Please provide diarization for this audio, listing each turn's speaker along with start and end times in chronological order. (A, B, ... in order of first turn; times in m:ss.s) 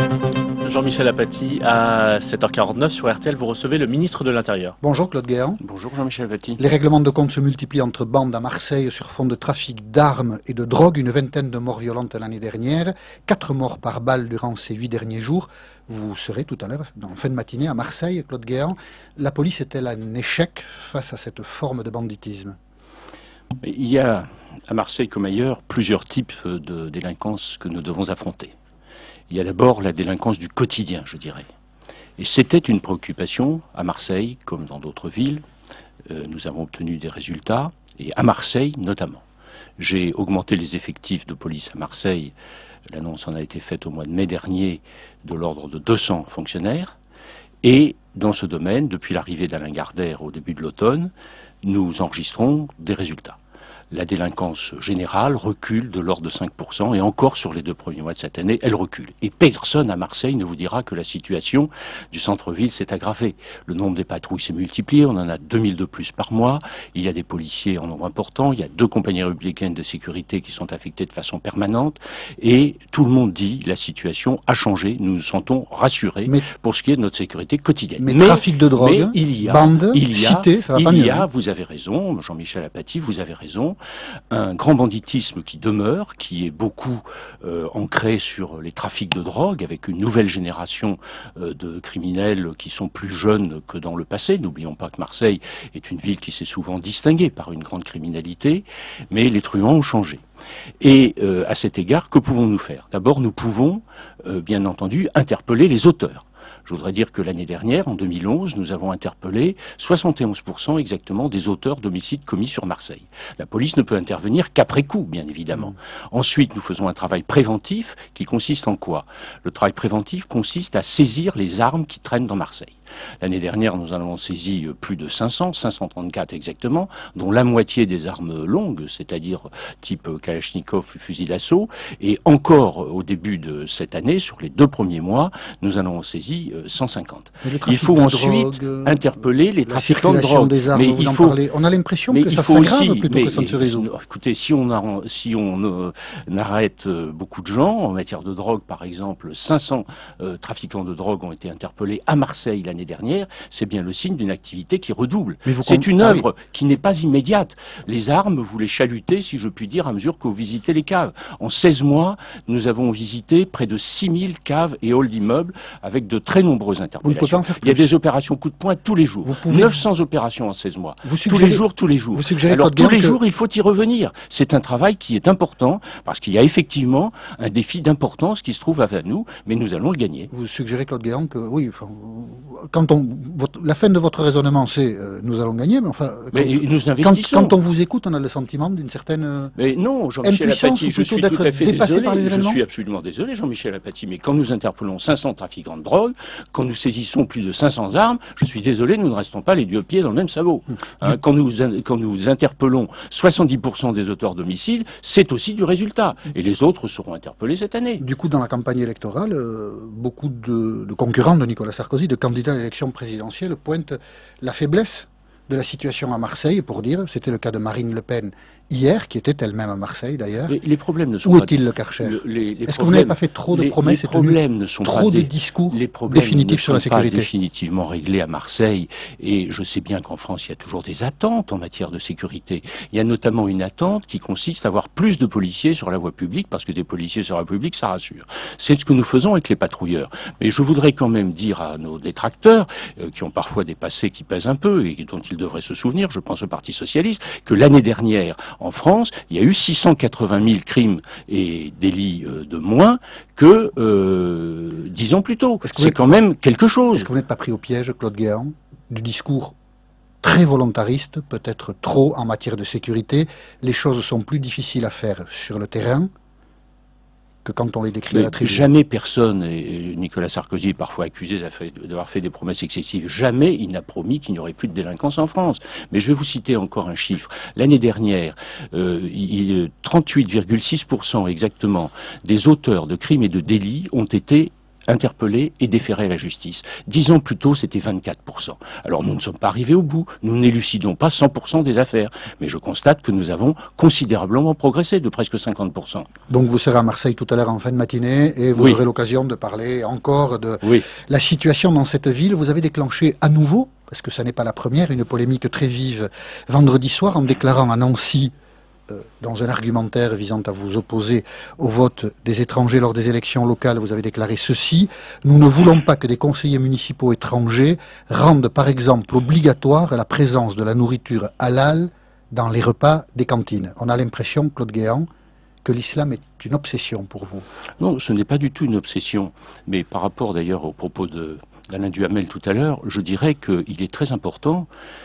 0:00.6-0:04.8 A
0:04.8-0:05.6 B
0:05.6-0:06.6 C
0:06.6-0:22.6 B
0:23.6-0:28.5 C
0:29.3-0:31.4 C
0:32.2-0:35.4 C
0:36.1-0:39.2 C
0:39.8-0:42.3 C
0:42.9-0:47.0 C
0:47.6-0:51.1 C
0:51.6-0:53.4 C
0:53.9-1:23.8 C
1:18.0-1:21.3 B
1:24.3-1:40.2 C
1:40.8-2:21.4 C
2:17.4-2:19.0 B
2:19.7-2:23.8 B
2:22.1-3:00.3 C
2:35.4-2:36.3 B
2:47.0-2:47.9 B
2:49.2-2:49.8 B
2:51.0-2:53.2 B
3:00.3-3:09.5 B
3:06.3-3:07.5 C
3:09.6-3:28.0 C
3:10.2-3:12.6 B
3:28.0-3:40.6 B
3:40.5-4:17.1 C
3:41.2-3:47.3 B
4:15.6-4:16.0 B
4:16.9-4:19.5 B
4:20.2-4:26.1 B
4:27.4-4:28.7 B
4:28.1-4:56.1 C
4:56.3-5:08.3 B
4:58.6-4:58.8 C
5:00.6-5:00.9 C
5:08.9-5:25.1 B
5:25.6-5:27.4 B
5:27.8-5:34.7 C